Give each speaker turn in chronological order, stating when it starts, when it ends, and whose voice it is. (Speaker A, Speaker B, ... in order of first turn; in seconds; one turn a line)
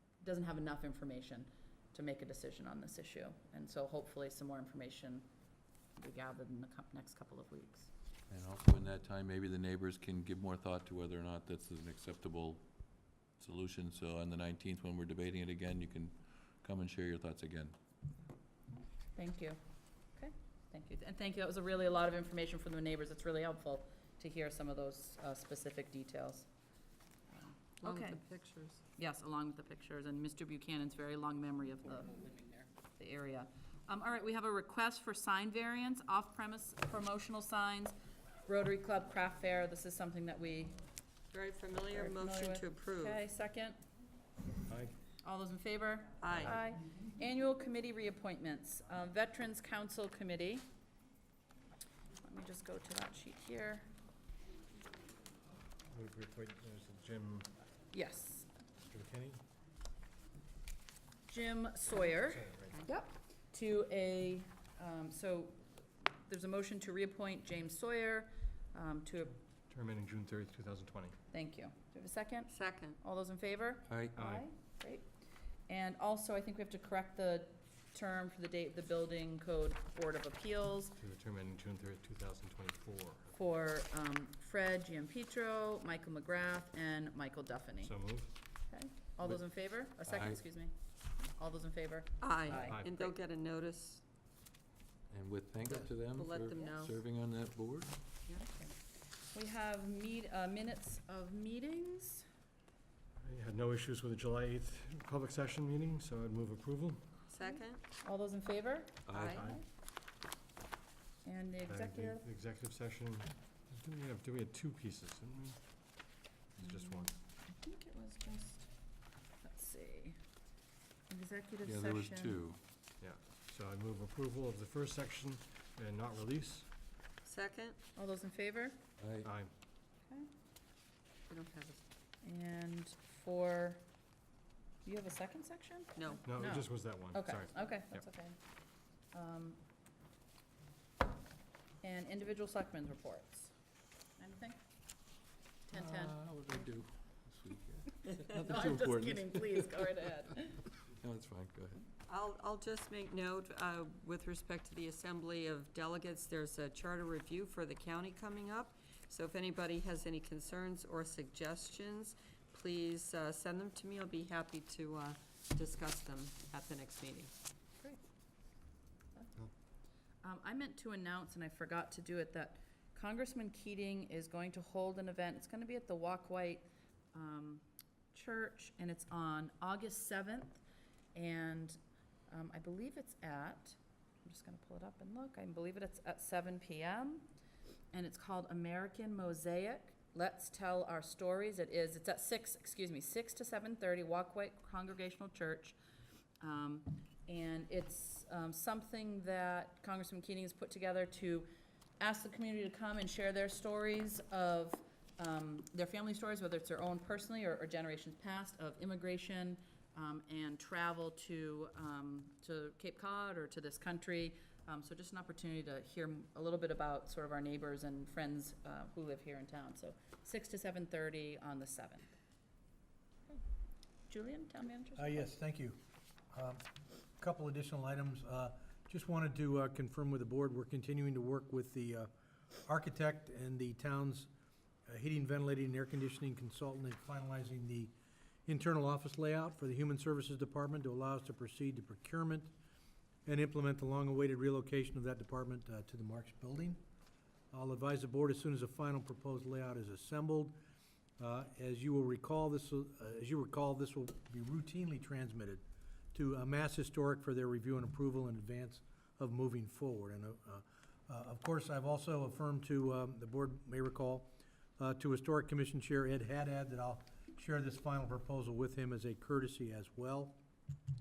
Speaker A: 0.2-5.3
Speaker A: 6.0-7.9
Speaker B: 8.3-12.7
Speaker B: 13.4-17.8
Speaker A: 19.1-19.6
Speaker A: 20.1-26.5
Speaker A: 27.3-28.2
Speaker C: 27.8-28.8
Speaker A: 29.0-37.9
Speaker A: 38.5-40.7
Speaker C: 41.3-43.2
Speaker A: 41.9-43.8
Speaker A: 45.2-50.7
Speaker C: 46.2-46.6
Speaker A: 52.2-53.9
Speaker D: 55.9-57.5
Speaker A: 57.9-58.5
Speaker D: 58.9-59.4
Speaker A: 61.3-69.4
Speaker D: 62.3-62.7
Speaker D: 69.7-71.2
Speaker A: 71.3-75.1
Speaker C: 72.5-73.0
Speaker B: 73.9-74.1
Speaker D: 74.2-74.5
Speaker A: 75.7-81.0
Speaker D: 81.0-83.3
Speaker A: 83.3-88.0
Speaker D: 87.8-88.3
Speaker A: 88.7-92.8
Speaker B: 90.1-90.4
Speaker C: 92.2-94.0
Speaker D: 92.5-93.0
Speaker B: 95.1-98.0
Speaker C: 95.7-97.0
Speaker A: 98.4-98.8
Speaker A: 99.3-102.3
Speaker D: 103.2-107.0
Speaker C: 107.3-107.8
Speaker A: 107.5-109.6
Speaker B: 109.1-109.4
Speaker C: 109.1-109.5
Speaker D: 109.3-109.6
Speaker A: 111.2-112.3
Speaker D: 111.7-115.6
Speaker D: 116.6-117.1
Speaker A: 116.6-118.7
Speaker A: 119.4-120.2
Speaker A: 121.1-122.4
Speaker B: 121.6-122.6
Speaker D: 123.0-126.7
Speaker C: 127.2-127.8
Speaker A: 128.0-128.8
Speaker B: 129.0-129.3
Speaker D: 129.2-129.5
Speaker C: 131.3-131.8
Speaker A: 132.2-133.8
Speaker A: 134.8-138.4
Speaker C: 136.0-136.3
Speaker D: 136.3-138.0
Speaker A: 139.1-139.6
Speaker A: 141.8-143.5
Speaker A: 144.2-144.6
Speaker A: 145.7-146.2
Speaker B: 145.7-149.8
Speaker A: 148.3-150.7
Speaker B: 151.0-151.8
Speaker C: 152.1-167.3
Speaker A: 170.2-180.6
Speaker A: 181.1-181.8
Speaker A: 182.3-187.2
Speaker A: 187.9-195.8
Speaker A: 196.4-201.5
Speaker A: 202.0-222.1
Speaker A: 224.1-225.3
Speaker E: 225.0-225.8
Speaker E: 226.3-226.6
Speaker E: 227.2-232.1
Speaker E: 232.6-234.3
Speaker E: 234.9-237.9
Speaker E: 238.5-242.5
Speaker E: 243.3-246.8
Speaker E: 247.5-250.6
Speaker E: 251.2-255.6
Speaker E: 256.1-270.4